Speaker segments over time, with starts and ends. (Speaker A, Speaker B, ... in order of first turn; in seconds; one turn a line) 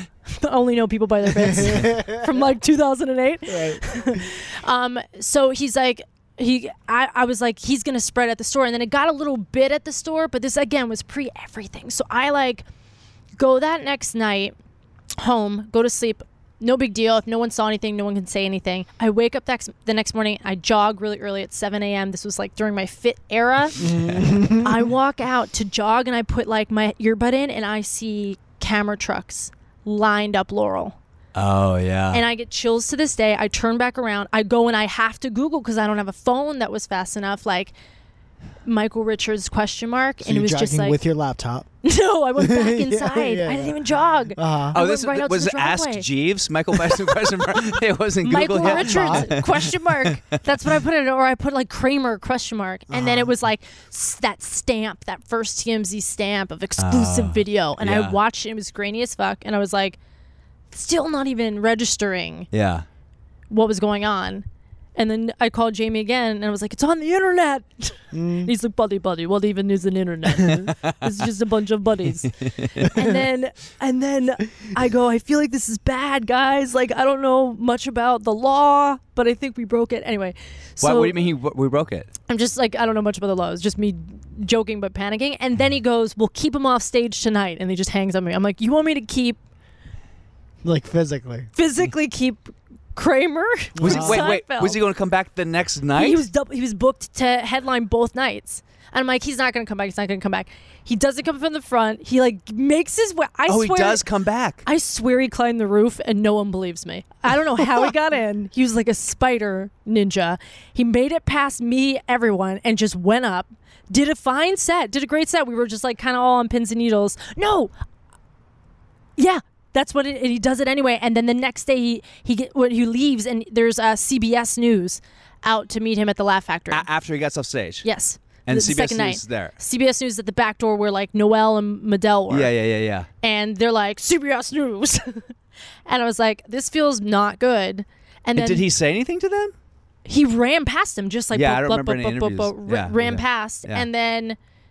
Speaker A: 0.3-12.6
Speaker B: 1.5-2.2
Speaker B: 3.5-3.8
Speaker A: 13.4-14.5
Speaker A: 15.2-23.8
Speaker B: 23.8-24.9
Speaker C: 23.8-24.4
Speaker A: 24.6-31.0
Speaker C: 31.3-32.2
Speaker A: 32.1-37.7
Speaker A: 38.6-41.0
Speaker B: 40.2-41.7
Speaker A: 41.8-46.1
Speaker B: 42.4-43.8
Speaker B: 44.4-44.8
Speaker C: 44.7-50.2
Speaker A: 48.2-60.0
Speaker B: 48.6-49.3
Speaker B: 52.9-53.3
Speaker C: 56.8-58.2
Speaker A: 60.7-62.5
Speaker C: 62.5-62.9
Speaker A: 63.5-81.1
Speaker B: 68.1-68.5
Speaker C: 70.4-71.0
Speaker C: 72.4-73.0
Speaker C: 80.8-82.1
Speaker A: 82.3-89.4
Speaker B: 90.6-91.5
Speaker A: 91.5-94.8
Speaker B: 93.8-94.3
Speaker C: 93.8-96.2
Speaker A: 96.0-104.0
Speaker C: 103.5-104.6
Speaker A: 104.6-117.7
Speaker A: 119.2-126.8
Speaker C: 126.7-127.8
Speaker A: 127.8-132.5
Speaker C: 128.4-129.5
Speaker C: 132.3-133.1
Speaker A: 133.2-135.3
Speaker A: 135.9-138.7
Speaker C: 138.3-139.5
Speaker A: 140.1-144.4
Speaker C: 141.3-143.9